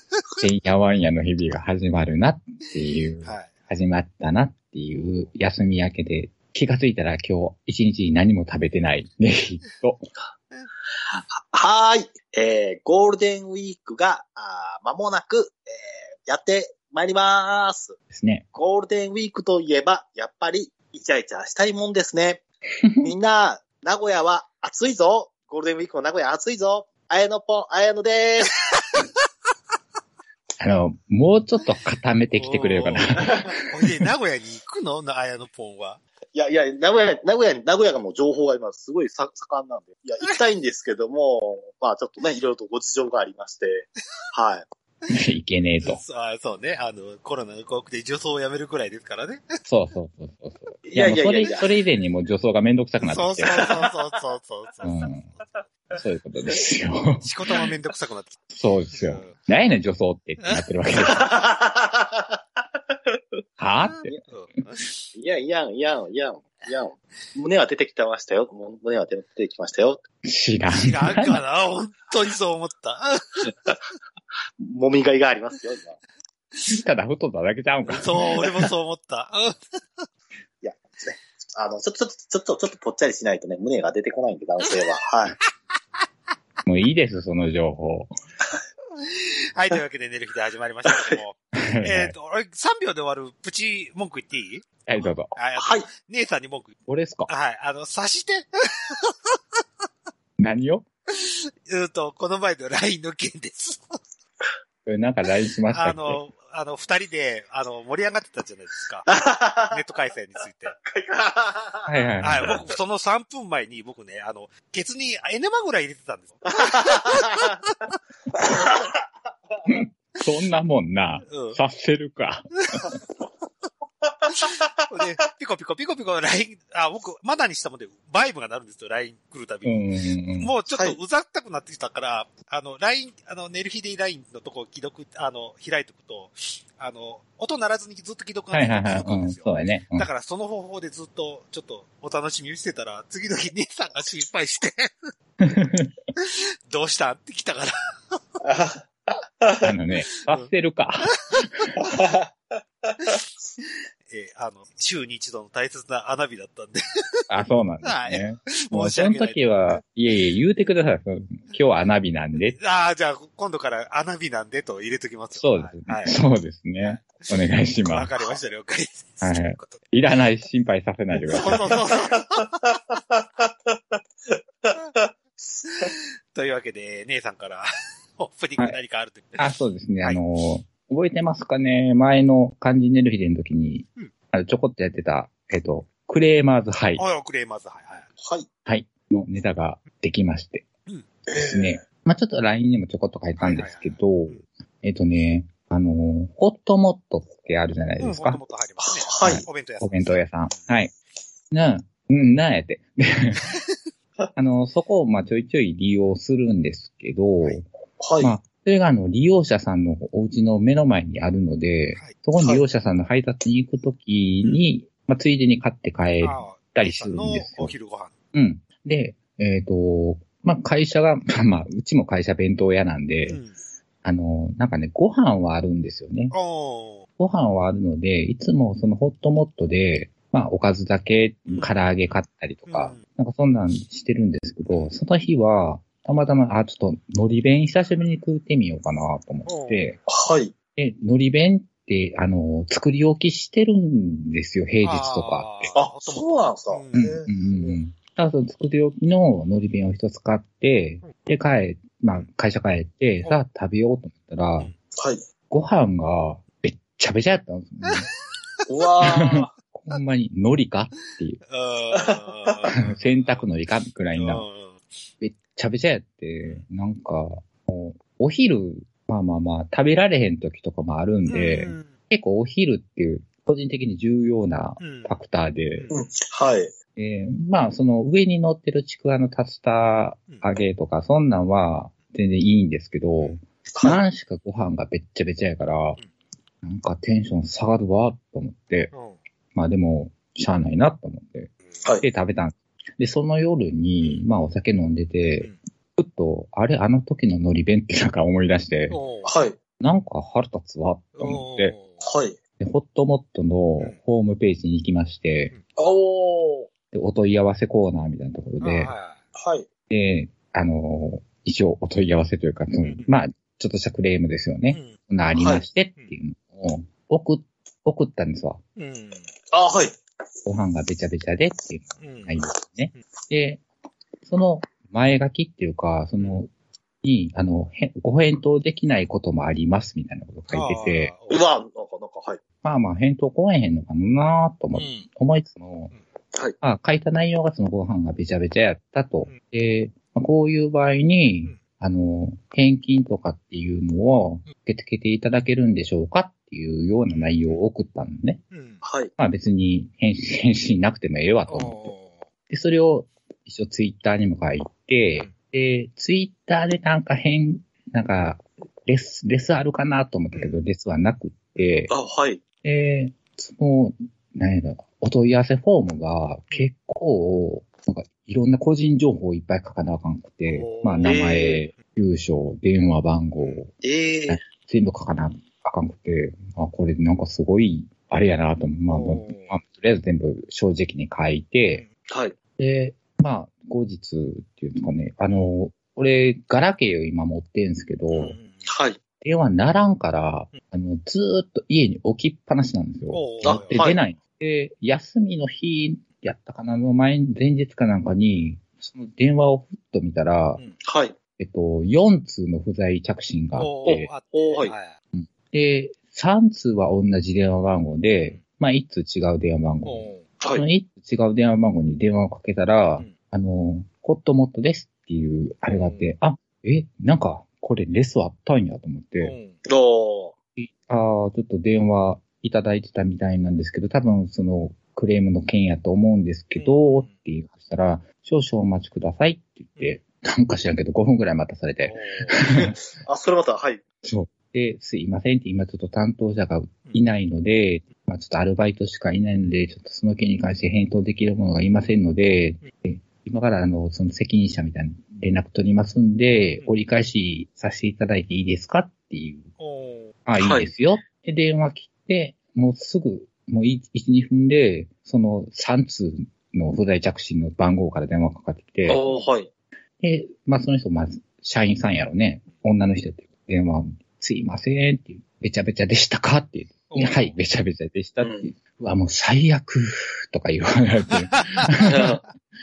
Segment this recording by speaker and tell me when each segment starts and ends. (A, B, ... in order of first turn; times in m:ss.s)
0:00.4-0:10.0 A
0:03.2-0:03.6 B
0:05.0-0:05.3 B
0:11.1-0:18.0 C
0:18.1-0:18.4 A
0:18.5-0:22.4 C
0:22.8-0:23.1 A
0:23.0-0:28.6 C
0:30.6-0:33.6 A
0:32.4-0:36.0 B
0:36.3-0:44.6 C
0:45.1-0:46.0 A
0:45.8-0:49.4 B
0:49.7-0:53.6 A
0:50.9-0:51.6 C
0:53.0-0:55.1 B
0:54.8-0:55.3 A
0:55.9-0:57.3 A
0:57.2-0:58.4 B
0:58.5-1:01.3 A
0:58.9-0:59.4 B
1:01.0-1:02.4 C
1:03.6-1:04.2 A
1:04.2-1:04.9 B
1:05.1-1:10.0 C
1:10.2-1:11.4 A
1:10.7-1:13.5 B
1:14.6-1:16.0 C
1:16.7-1:18.4 A
1:17.8-1:20.1 B
1:20.6-1:25.4 C
1:26.6-1:28.1 A
1:29.0-1:34.7 B
1:30.9-1:31.2 C
1:31.5-1:32.1 A
1:34.9-1:35.3 A
1:35.3-1:36.7 B
1:35.6-1:35.9 C
1:36.9-1:37.3 A
1:37.3-1:39.1 B
1:40.4-1:40.8 A
1:41.2-1:44.0 B
1:44.8-1:46.2 A
1:45.7-1:49.1 B
1:49.1-1:49.8 C
1:49.7-1:50.7 B
1:50.7-1:51.9 C
1:51.8-1:52.6 A
1:52.2-1:57.7 B
1:56.6-1:57.4 C
1:58.5-1:58.8 C
1:59.7-2:02.5 A
2:01.3-2:01.6 B
2:04.3-2:25.1 B
2:09.6-2:10.5 A
2:10.7-2:11.0 C
2:18.5-2:20.1 A
2:25.4-2:25.9 A
2:26.2-2:27.7 B
2:28.4-2:29.6 C
2:29.6-2:31.8 A
2:30.2-2:30.5 B
2:31.3-2:31.6 B
2:31.8-2:32.3 C
2:32.8-2:33.1 C
2:34.1-2:36.8 B
2:37.3-2:42.6 A
2:37.8-2:39.8 B
2:42.6-2:46.2 B
2:45.4-2:48.1 A
2:46.8-2:49.8 B
2:49.2-2:51.8 A
2:51.3-2:52.8 B
2:53.4-2:54.0 C
2:54.6-2:55.0 C
2:55.6-2:55.8 C
2:55.6-2:57.6 B
2:58.2-3:00.2 B
2:59.4-3:07.0 A
3:07.0-3:08.1 B
3:08.2-3:08.5 C
3:08.6-3:10.7 A
3:11.3-3:11.8 C
3:11.4-3:18.4 A
3:13.4-3:14.4 B
3:18.0-3:20.7 B
3:18.8-3:19.4 C
3:19.2-3:20.9 A
3:21.5-3:23.4 A
3:24.4-3:27.7 A
3:28.0-3:28.3 C
3:28.2-3:37.7 A
3:34.4-3:34.7 B
3:36.2-3:38.1 B
3:38.3-3:43.4 A
3:43.2-3:43.6 B
3:44.0-3:46.3 A
3:46.3-3:47.0 B
3:47.2-4:00.0 A
3:51.5-3:51.8 B
3:52.7-3:53.0 B
3:59.4-4:00.0 B
4:00.1-4:00.5 C
4:00.8-4:05.7 A
4:04.8-4:07.3 B
4:05.7-4:06.9 C
4:06.9-4:14.7 A
4:15.0-4:15.2 C
4:15.5-4:18.1 A
4:18.7-4:19.5 C
4:19.1-4:21.4 A
4:21.5-4:23.5 B
4:22.8-4:24.4 A
4:24.1-4:24.8 B
4:25.2-4:35.9 A
4:31.3-4:31.9 B
4:34.8-4:35.2 B
4:35.7-4:36.0 B
4:35.9-4:36.7 C
4:37.0-4:46.0 A
4:43.7-4:44.0 C
4:46.6-4:48.9 A
4:48.9-4:49.2 B
4:49.5-4:59.0 A
4:54.0-4:54.2 B
4:58.9-4:59.3 B
4:59.2-4:59.6 C
4:59.8-5:01.7 A
5:01.1-5:02.1 B
5:02.0-5:02.4 C
5:02.6-5:05.5 A
5:05.8-5:06.7 C
5:06.9-5:08.9 A
5:08.6-5:09.2 B
5:09.3-5:09.6 C
5:09.9-5:18.6 A
5:12.8-5:13.1 B
5:14.7-5:15.0 B
5:15.4-5:15.6 C
5:18.8-5:19.3 B
5:19.5-5:20.0 C
5:20.4-5:23.6 A
5:22.0-5:22.4 B
5:24.2-5:26.5 A
5:27.0-5:31.1 A
5:30.5-5:31.4 B
5:31.3-5:32.4 C
5:32.6-5:35.9 A
5:34.7-5:35.0 B
5:36.6-5:48.4 A
5:47.1-5:47.6 B
5:48.5-5:48.8 B
5:48.8-5:49.1 C
5:49.2-5:51.9 A
5:51.5-5:52.2 B
5:52.5-6:01.9 A
6:01.9-6:02.4 C
6:02.6-6:13.7 A
6:10.5-6:11.6 B
6:11.0-6:11.6 C
6:13.4-6:13.6 B
6:13.8-6:14.4 C
6:14.3-6:21.8 A
6:18.9-6:19.6 B
6:22.1-6:22.4 C
6:22.6-6:28.4 A
6:28.1-6:28.7 B
6:28.6-6:29.0 C
6:29.2-6:40.6 A
6:33.1-6:33.8 B
6:33.4-6:34.0 C
6:40.8-6:41.2 C
6:41.4-6:44.1 A
6:43.5-6:45.0 B
6:43.8-6:44.7 C
6:45.1-6:59.4 A
6:49.8-6:50.2 B
6:50.4-6:50.6 C
6:55.6-6:56.1 B
6:59.2-6:59.6 B
6:59.6-7:00.3 C
7:00.6-7:12.8 A
7:06.6-7:07.2 B
7:11.8-7:12.4 B
7:12.5-7:13.8 C
7:14.0-7:29.5 A
7:29.6-7:30.1 B
7:30.2-7:39.0 A
7:30.4-7:30.7 C
7:38.8-7:39.5 C
7:40.0-7:52.2 A
7:46.9-7:47.3 B
7:48.2-7:48.5 C
7:51.3-7:51.7 B
7:51.8-7:52.2 C